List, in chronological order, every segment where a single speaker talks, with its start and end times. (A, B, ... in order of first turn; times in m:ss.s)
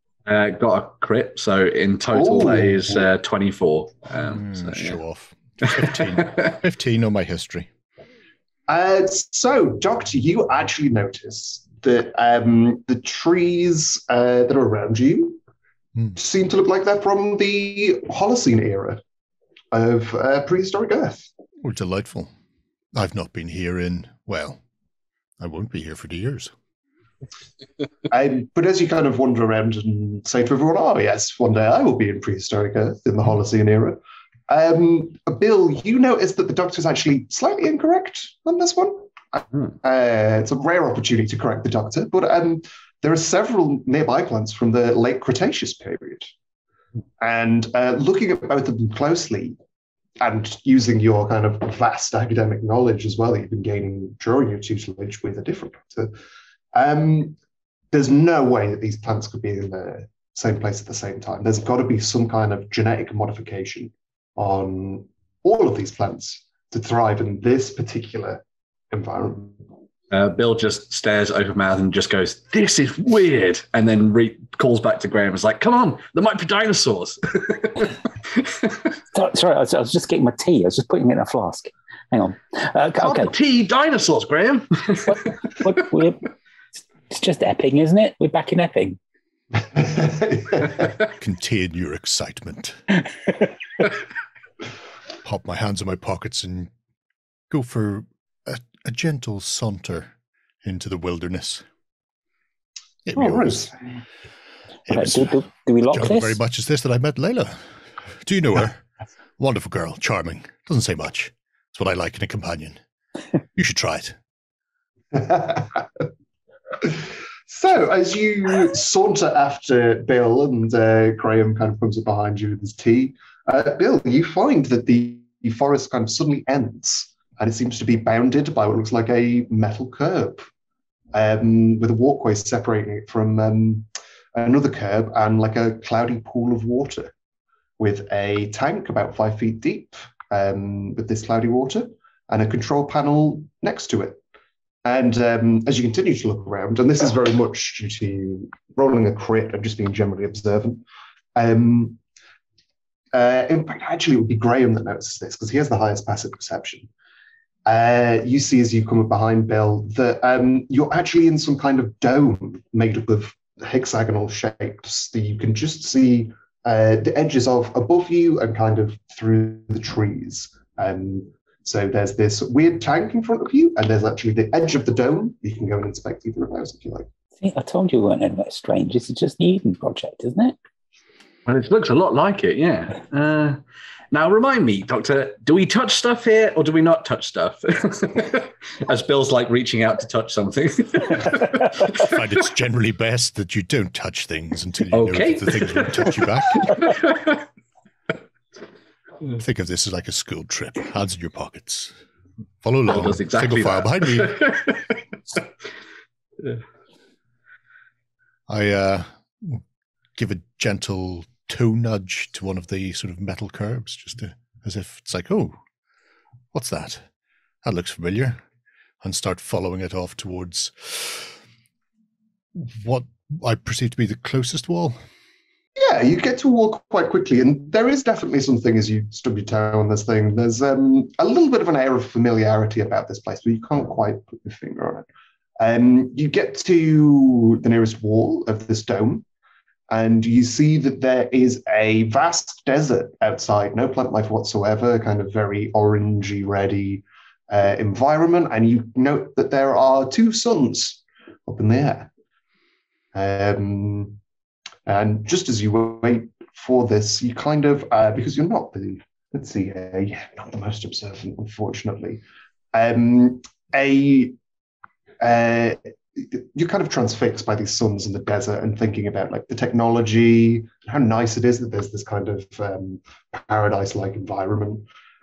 0:00.2-0:05.0 A
0:02.1-0:03.1 B
0:04.2-0:07.7 C
0:05.7-0:06.5 A
0:08.7-0:15.4 B
0:16.1-0:19.0 B
0:19.7-0:21.3 B
0:21.6-0:22.3 C
0:22.9-0:24.6 C
0:25.4-0:26.5 C
0:28.1-0:46.3 B
0:47.2-0:49.6 B
0:50.2-0:56.1 B
0:56.7-0:57.4 B
0:57.9-1:09.6 B
1:10.1-1:18.8 A
1:19.1-1:23.3 D
1:23.0-1:25.3 A
1:25.0-1:26.3 D
1:27.1-1:29.0 D
1:29.7-1:30.8 B
1:31.2-1:32.8 C
1:35.2-1:36.7 C
1:37.5-1:40.1 C
1:40.6-1:41.6 C
1:43.0-1:43.7 C
1:43.1-1:44.0 B
1:44.9-1:47.6 C
1:44.9-1:46.4 D
1:48.2-1:48.8 C
1:49.4-1:52.8 C
1:53.5-1:54.2 C
1:55.1-1:55.8 B
1:57.5-2:10.4 B
2:11.1-2:17.1 B
2:17.8-2:24.2 B
2:24.8-2:30.8 B
2:31.3-2:32.0 B
2:33.1-2:36.9 B
2:37.6-2:57.1 B
2:57.4-3:00.5 D
3:01.4-3:03.6 A
3:04.1-3:12.2 A
3:11.9-3:16.8 C
3:14.9-3:17.4 A
3:19.4-3:21.9 C
3:22.6-3:24.4 C
3:22.9-3:24.9 A
3:28.5-3:29.6 C
3:30.2-3:35.6 C
3:36.5-3:37.1 C
3:37.6-3:38.4 C
3:39.0-3:41.3 C
3:42.5-3:45.0 C
3:45.8-3:55.1 B
3:55.6-3:59.2 B
3:59.9-4:12.1 B
4:13.1-4:14.2 B
4:14.8-4:22.2 B
4:22.7-4:24.3 B
4:25.2-4:34.8 B